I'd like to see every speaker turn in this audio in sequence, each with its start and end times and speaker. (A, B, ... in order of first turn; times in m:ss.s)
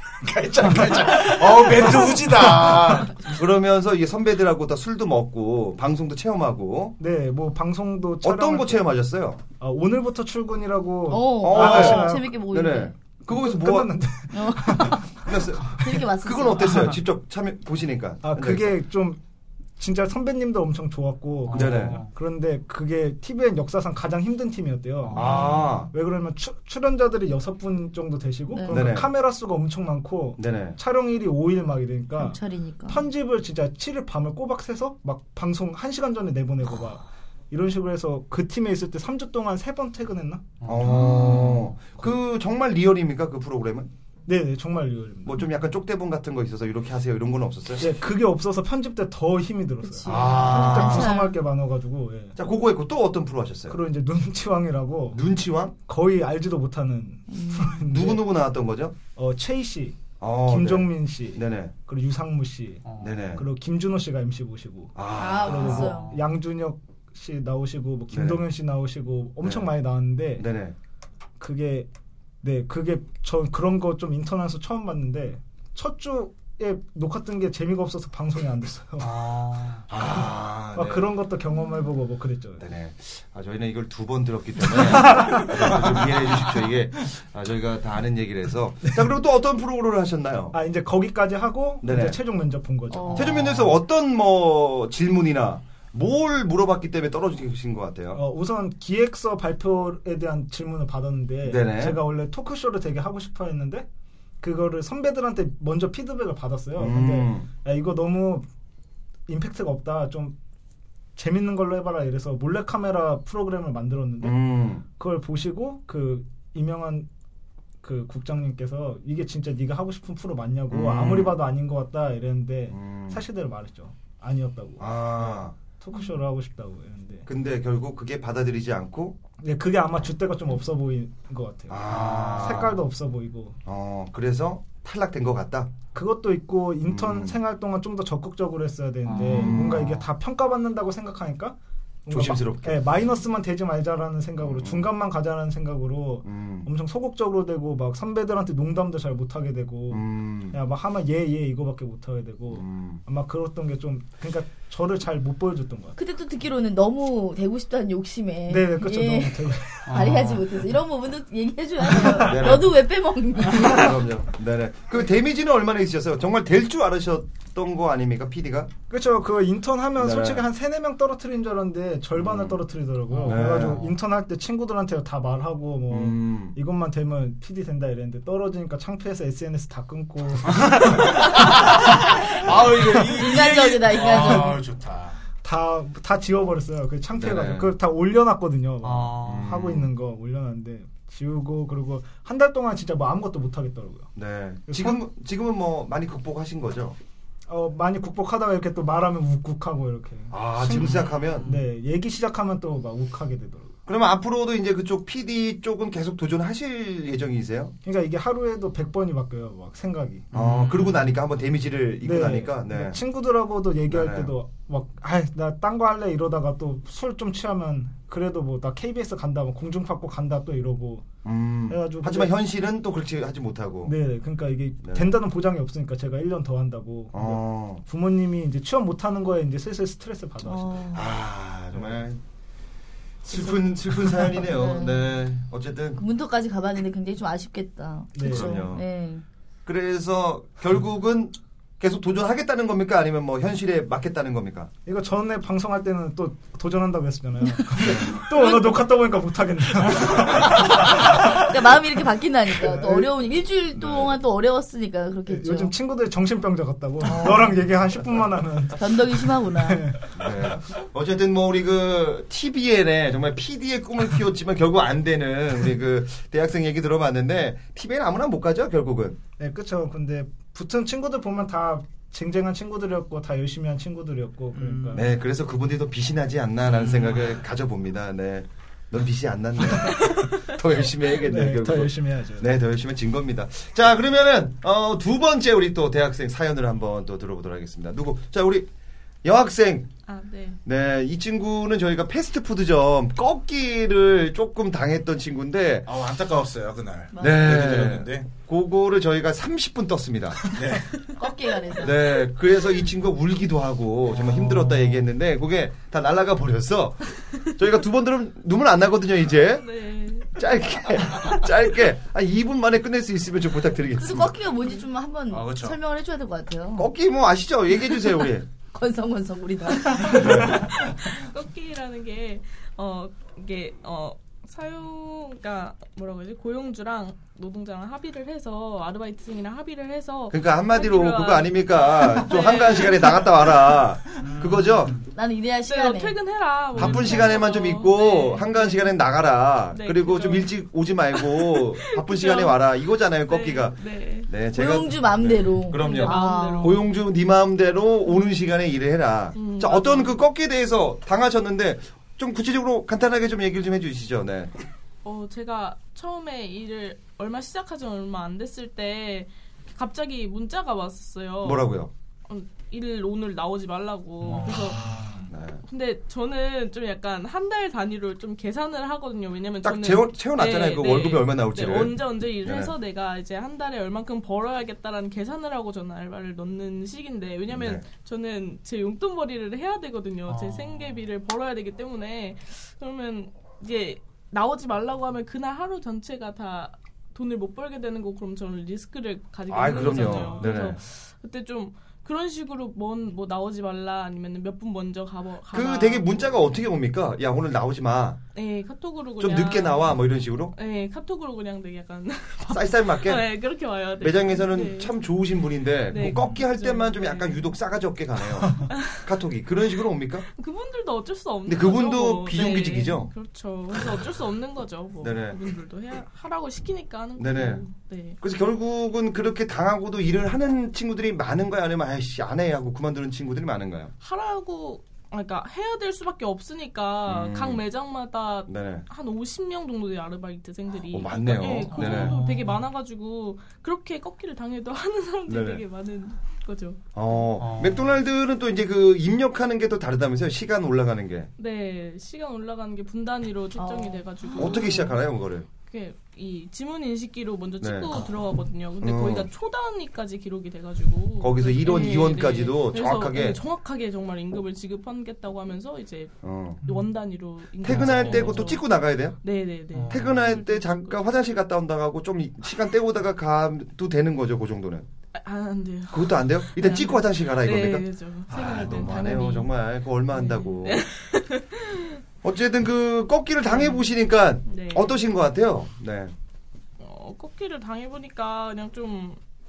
0:00.2-0:03.2 A
0:03.2-0:07.0 B
0:07.0-0:08.9 C
0:08.2-0:09.4 B
0:09.6-0:12.3 C
0:11.1-0:12.9 D
0:11.4-0:14.0 B
0:13.3-0:16.0 C
0:14.3-0:17.0 D
0:15.2-0:18.8 B
0:18.2-0:19.2 C
0:19.8-0:41.5 C
0:21.5-0:22.1 E
0:21.5-0:22.0 B
0:25.0-0:25.8 E
0:25.1-0:25.9 B
0:28.5-0:28.9 D
0:28.7-0:29.1 B
0:30.4-0:30.8 B
0:32.2-0:33.1 D
0:40.6-0:41.7 E
0:40.6-0:43.9 B
0:44.3-0:45.5 C
0:45.2-0:47.9 B
0:47.8-0:52.4 C
0:49.8-0:51.4 D
0:50.0-0:51.2 B
0:52.4-0:53.8 B
0:53.7-0:55.2 C
0:55.1-0:55.7 B
0:55.8-0:58.2 C
0:57.3-0:57.9 D
0:57.8-0:59.0 B
0:59.2-1:10.5 C
1:00.2-1:01.7 B
1:02.8-1:03.1 E
1:03.0-1:03.4 B
1:05.0-1:05.9 B
1:05.1-1:06.2 D
1:05.8-1:06.2 E
1:08.1-1:08.4 B
1:09.4-1:09.7 B
1:10.4-1:10.8 B
1:11.4-1:11.9 C
1:12.4-1:19.1 C
1:19.0-1:19.8 E
1:19.9-1:21.1 B
1:20.7-1:22.7 C
1:22.6-1:30.6 B
1:30.5-1:33.5 C
1:31.8-1:32.2 B
1:32.9-1:33.4 D
1:33.1-1:38.2 B
1:38.1-1:43.9 C
1:41.4-1:42.0 B
1:44.4-1:48.5 C
1:46.8-1:47.5 B
1:49.3-1:50.4 C
1:51.2-1:54.4 C
1:54.2-1:54.8 B
1:54.9-1:57.1 C
1:57.8-2:07.3 C
2:00.7-2:01.4 B
2:02.7-2:03.2 B
2:04.8-2:05.6 B
2:07.3-2:09.2 B
2:09.4-2:13.6 C
2:11.7-2:12.8 B
2:11.9-2:12.4 E
2:13.6-2:15.7 B
2:15.9-2:36.0 C
2:16.8-2:17.4 B
2:19.1-2:19.8 E
2:19.2-2:20.0 B
2:22.1-2:22.9 B
2:24.4-2:24.9 B
2:26.2-2:26.7 B
2:29.9-2:30.6 B
2:32.5-2:33.0 B
2:36.0-2:44.0 D
2:38.5-2:40.0 C
2:39.9-2:40.7 E
2:42.2-2:42.7 B
2:43.5-2:48.7 B
2:48.9-3:01.6 C
2:50.0-2:50.4 B
2:52.2-2:52.6 B
2:53.1-2:53.8 E
2:53.2-2:53.8 B
2:55.9-2:56.6 B
3:01.1-3:05.2 A
3:03.1-3:04.6 D
3:04.2-3:04.4 C
3:05.4-3:14.1 C
3:07.1-3:07.8 B
3:08.8-3:09.5 E
3:09.2-3:09.9 B
3:14.2-3:17.0 B
3:14.7-3:15.0 C
3:17.5-3:23.7 C
3:20.3-3:21.5 B
3:21.4-3:21.7 E
3:23.9-3:27.8 B
3:27.8-3:30.3 C
3:30.3-3:31.2 E
3:30.3-3:33.0 B
3:32.0-3:41.1 C
3:33.9-3:34.3 B
3:41.2-3:44.0 B
3:41.7-3:42.4 C
3:43.8-3:50.9 C
3:44.8-3:45.2 B
3:47.1-3:47.8 B
3:50.4-3:51.1 D
3:50.9-3:52.2 B
3:53.2-3:56.0 B
3:54.3-3:55.1 D
3:56.0-3:59.2 D
3:58.1-3:58.7 C
3:58.3-3:58.8 B
3:59.7-4:04.7 B
4:04.9-4:11.5 C
4:07.8-4:08.2 B
4:08.3-4:08.7 D
4:10.9-4:15.7 D
4:12.6-4:13.1 C
4:13.7-4:14.2 B
4:15.3-4:20.3 C
4:17.1-4:17.6 D
4:18.8-4:19.9 D
4:20.2-4:29.2 B
4:29.4-4:35.1 C
4:34.6-4:35.1 E
4:34.9-4:48.7 B
4:36.7-4:37.2 E
4:41.2-4:42.6 C
4:49.2-4:49.9 B
4:50.1-4:50.6 F
4:50.6-4:55.9 B
4:55.9-4:58.3 A
4:57.1-4:57.5 D
4:57.2-5:00.5 B
5:00.5-5:00.9 A
5:01.2-5:02.2 D
5:01.8-5:09.7 B
5:04.2-5:05.0 E
5:09.5-5:10.4 F
5:10.3-5:14.4 B
5:14.0-5:16.9 D
5:15.3-5:15.8 A
5:16.8-5:18.5 B
5:18.7-5:20.6 D
5:20.0-5:20.7 B
5:20.4-5:33.3 F
5:30.3-5:35.0 B
5:34.2-5:35.1 E
5:35.1-5:36.2 D
5:35.7-5:39.0 F
5:36.7-5:54.5 B
5:36.8-5:37.1 E
5:39.7-5:40.6 F
5:41.1-5:42.6 F
5:43.2-5:44.3 F
5:44.5-5:46.8 D
5:45.7-5:46.8 F
5:49.3-5:50.2 F
5:55.0-6:01.8 F
6:01.4-6:01.9 B
6:02.3-6:05.0 F
6:04.2-6:05.3 E
6:05.3-6:05.6 B
6:05.6-6:36.4 F
6:09.6-6:12.8 B
6:17.5-6:17.8 B
6:20.3-6:21.1 E
6:29.5-6:30.8 B
6:29.7-6:30.6 E
6:35.5-6:38.2 B
6:38.4-6:40.0 F
6:39.2-6:40.5 B
6:40.5-6:44.9 F
6:42.5-6:43.3 B
6:44.0-6:50.3 B
6:45.9-6:47.5 F
6:48.7-6:49.0 F
6:50.3-6:58.2 F
6:51.5-6:53.1 B
6:55.0-6:55.4 B
6:57.2-6:57.6 B
6:58.2-7:03.9 B
7:04.0-7:16.8 F
7:07.1-7:07.6 B
7:08.5-7:08.8 B
7:10.9-7:12.2 B
7:11.7-7:12.6 E
7:15.3-7:15.6 B
7:17.0-7:21.3 B
7:17.4-7:18.0 E
7:21.4-7:25.0 F
7:23.6-7:24.8 D
7:24.4-7:25.5 B
7:25.6-7:36.1 F
7:27.6-7:28.1 B
7:28.8-7:29.3 B
7:31.2-7:33.4 B
7:36.2-7:36.6 B
7:36.6-7:38.7 F
7:37.6-7:39.2 B
7:37.6-7:38.6 E
7:39.2-7:41.0 F
7:39.7-7:40.3 E
7:39.9-7:44.9 B
7:45.2-7:49.5 F
7:45.9-7:50.8 B
7:50.1-7:52.0 F
7:52.2-7:56.1 B
7:53.4-7:53.9 F
7:54.4-7:55.0 F
7:56.8-7:59.2 F